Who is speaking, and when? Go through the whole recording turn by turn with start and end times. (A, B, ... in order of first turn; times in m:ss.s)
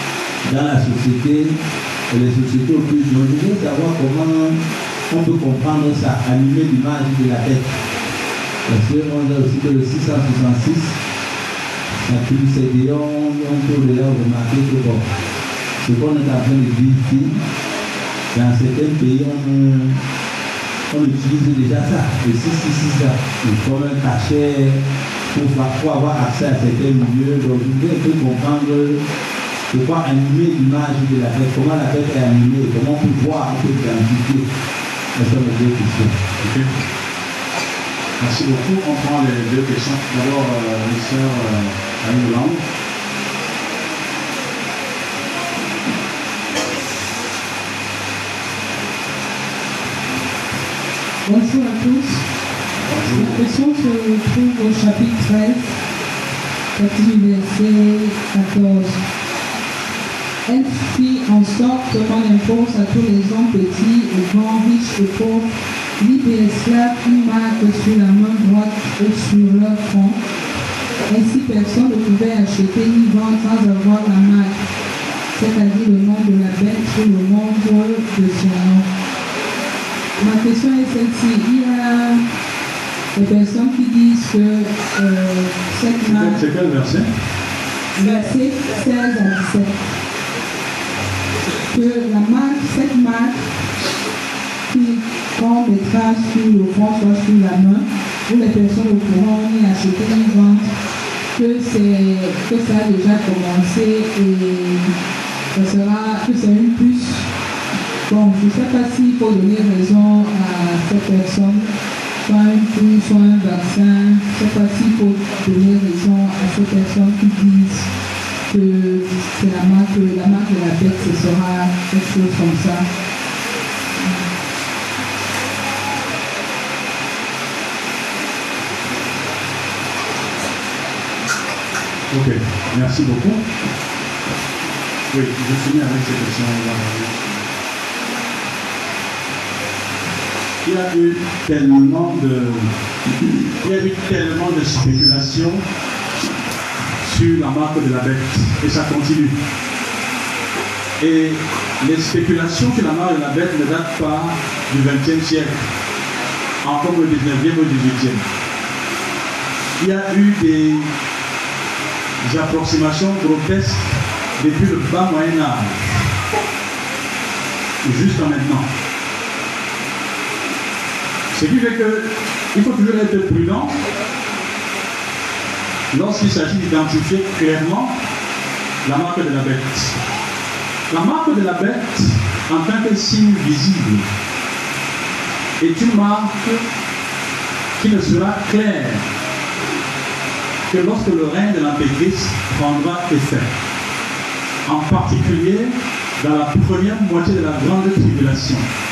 0:00.4-0:01.6 A
0:02.1-0:07.7 A
0:08.7-0:10.9 A
0:12.0-0:15.0 A
0:15.8-0:17.4 A
0:18.3-0:20.0 A
0:20.9-0:29.0 A
0:29.7-0:34.5 A
0:35.2-0:36.2 A
0:36.4-0:36.7 B
0:38.2-0:42.6 B
0:51.2-0:52.4 C
0:52.9-0:53.4 B
0:53.0-0:55.8 C
0:56.8-0:59.0 C
1:00.5-1:10.2 C
1:11.1-1:14.6 C
1:15.4-1:18.9 C
1:20.2-1:22.3 C
1:23.1-1:26.4 C
1:26.0-1:27.1 B
1:28.0-1:29.8 C
1:31.7-1:33.5 C
1:34.7-1:40.7 C
1:41.3-1:44.9 C
1:45.5-1:47.3 C
1:48.1-1:51.7 C
1:52.2-1:57.9 C
1:58.5-2:02.9 C
2:12.1-2:13.4 B
2:15.1-2:17.3 B
2:20.6-2:22.7 B
2:23.6-2:25.6 B
2:27.0-2:29.3 B
2:31.0-2:35.5 B
2:36.6-2:38.2 B
2:39.8-2:40.9 B
2:42.2-2:45.8 B
2:47.8-2:48.6 B
2:51.3-2:53.7 B
2:55.9-2:57.9 B
2:58.8-3:00.0 B
3:00.9-3:04.1 B
3:05.6-3:06.6 B
3:07.8-3:09.0 B
3:10.7-3:13.5 B
3:14.6-3:18.6 B